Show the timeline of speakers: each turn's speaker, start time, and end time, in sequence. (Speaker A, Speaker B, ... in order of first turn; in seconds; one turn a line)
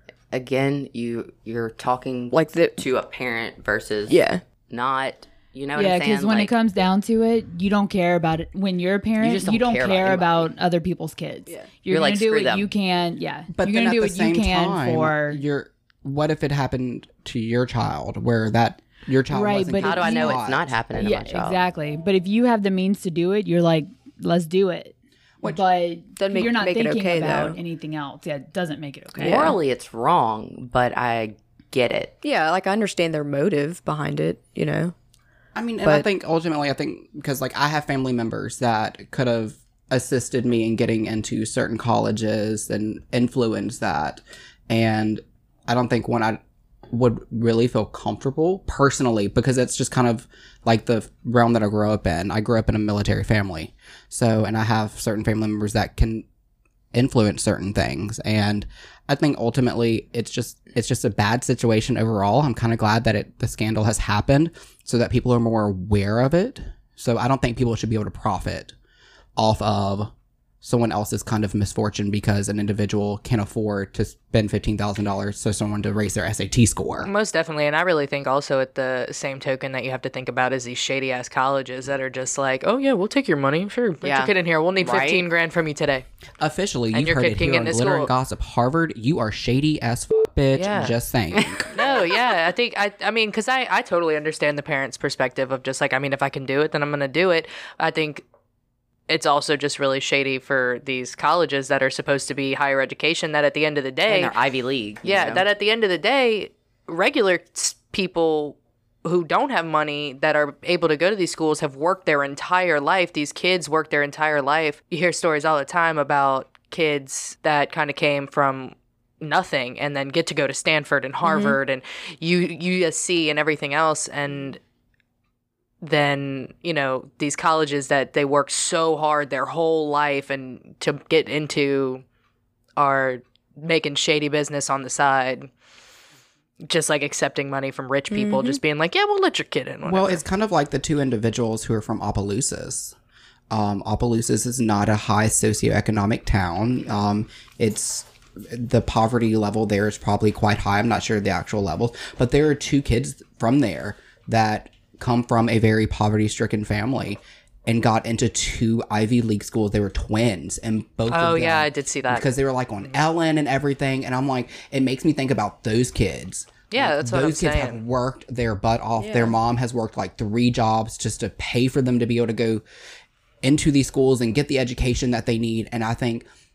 Speaker A: 0.3-6.5
Speaker B: 2.3-2.8
Speaker B: 4.1-4.4
Speaker C: 5.7-15.4
Speaker A: 9.2-10.5
Speaker A: 11.9-12.7
Speaker D: 13.5-20.7
Speaker C: 19.3-20.4
Speaker A: 19.8-21.6
Speaker C: 20.9-29.5
Speaker B: 26.1-27.6
Speaker B: 29.2-29.6
Speaker A: 29.2-32.1
Speaker B: 32.2-34.9
Speaker D: 35.5-56.2
Speaker D: 56.9-68.7
Speaker D: 69.4-70.1
Speaker D: 70.6-77.1
Speaker E: 77.0-86.0
Speaker A: 84.0-85.2
Speaker D: 86.4-91.7
Speaker E: 86.9-88.1
Speaker E: 90.5-90.9
Speaker A: 91.3-91.7
Speaker E: 91.7-98.2
Speaker E: 99.1-104.3
Speaker A: 104.1-105.4
Speaker E: 105.0-124.6
Speaker B: 121.2-121.6
Speaker E: 125.8-132.0
Speaker E: 132.8-135.5
Speaker E: 136.6-140.2
Speaker B: 138.1-138.6
Speaker D: 139.8-142.9
Speaker D: 143.5-172.6
Speaker E: 161.1-162.3
Speaker E: 166.7-167.8
Speaker B: 169.0-169.3
Speaker D: 173.4-176.2